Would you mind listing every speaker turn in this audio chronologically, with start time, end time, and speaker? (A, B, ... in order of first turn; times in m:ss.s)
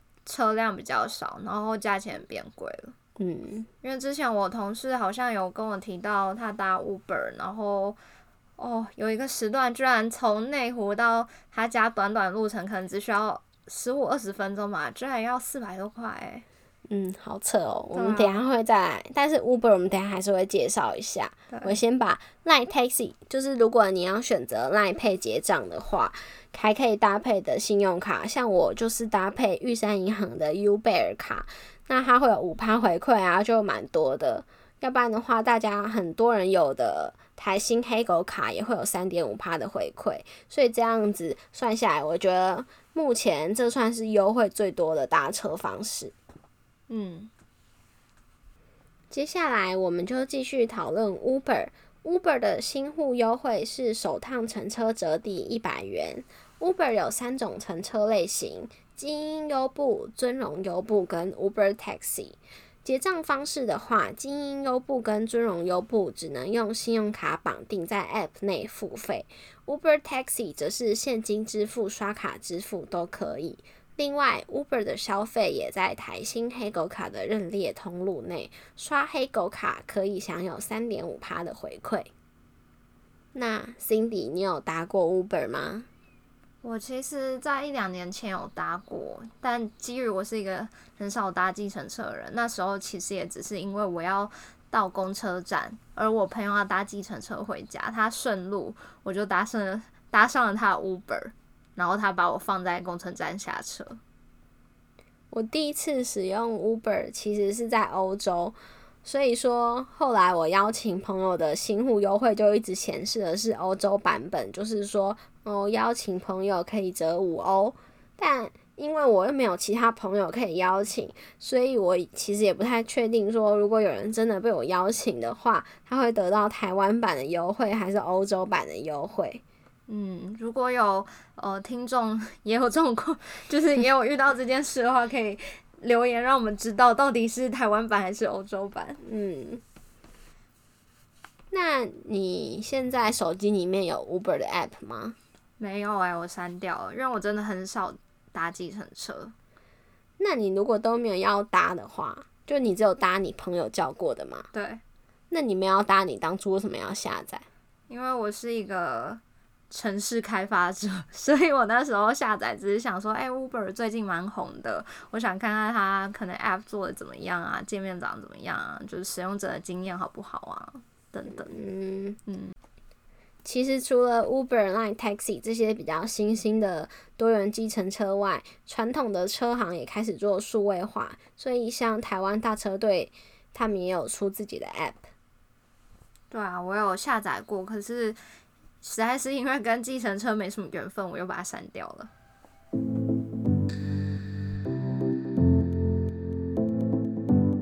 0:00.2-0:02.9 A
0:03.2-0:03.7 B
0:03.8-0:08.0 A
0:08.6-0:16.4 A
0:16.9-0:46.1 B
0:17.9-0:18.4 A
0:46.9-0:47.3 A
0:49.1-1:22.1 B
1:23.3-1:25.9 B
1:26.6-1:44.0 A
1:45.3-2:09.4 B
2:09.9-2:19.0 A
2:19.0-2:19.6 B
2:21.5-2:25.2 B
2:25.6-2:29.3 A
2:30.2-2:34.5 B
2:34.5-2:34.8 A
2:35.3-2:37.4 B
2:37.9-2:51.6 A
2:51.4-2:52.2 B
2:52.2-2:52.5 A
2:53.4-3:05.1 B
3:06.3-3:08.2 A
3:08.8-3:12.1 A